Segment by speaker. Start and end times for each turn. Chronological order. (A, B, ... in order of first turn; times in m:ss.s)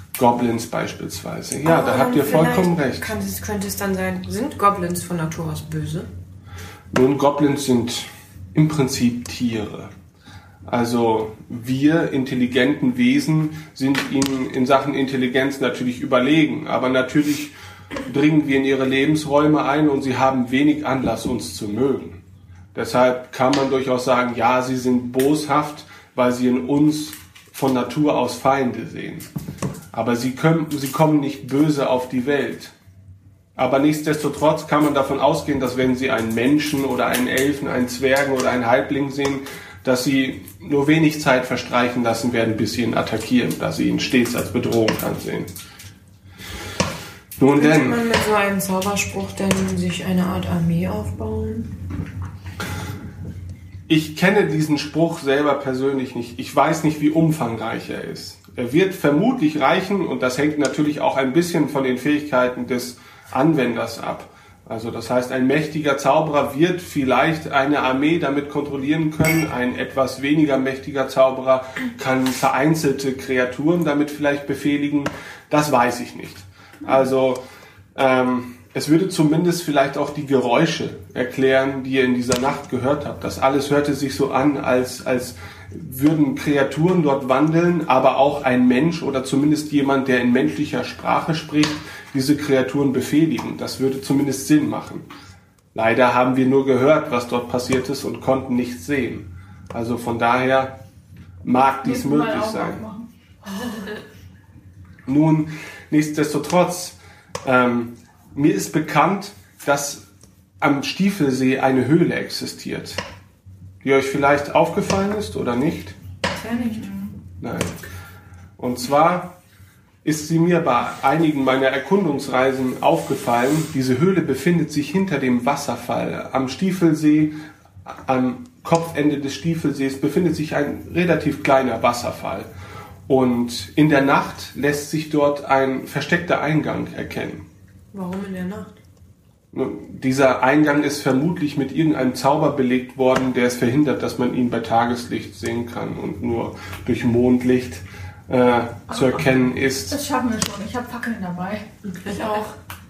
0:00.2-0:03.1 A
0:01.6-0:06.1 B
0:06.9-0:09.9 A
0:10.7-0:17.5 A
0:18.1-0:22.2 A
0:22.8-0:29.3 A
0:29.9-0:32.7 A
0:33.6-0:45.5 A
0:47.4-0:48.0 A
0:47.6-0:51.7 B
0:53.9-1:17.4 A
1:18.0-1:35.1 A
1:35.7-1:40.8 A
1:41.4-1:42.8 A
1:41.8-1:43.1 C
1:45.1-1:50.1 A
1:50.6-1:53.0 A
1:53.8-1:56.0 A
1:56.4-1:56.9 B
1:56.6-1:57.0 C
1:57.4-1:57.8 A
1:58.6-1:59.4 A
2:00.0-2:12.5 A
2:13.1-2:17.5 A
2:17.9-2:18.7 B
2:19.5-2:30.0 A
2:29.9-2:31.7 C
2:32.1-2:32.5 B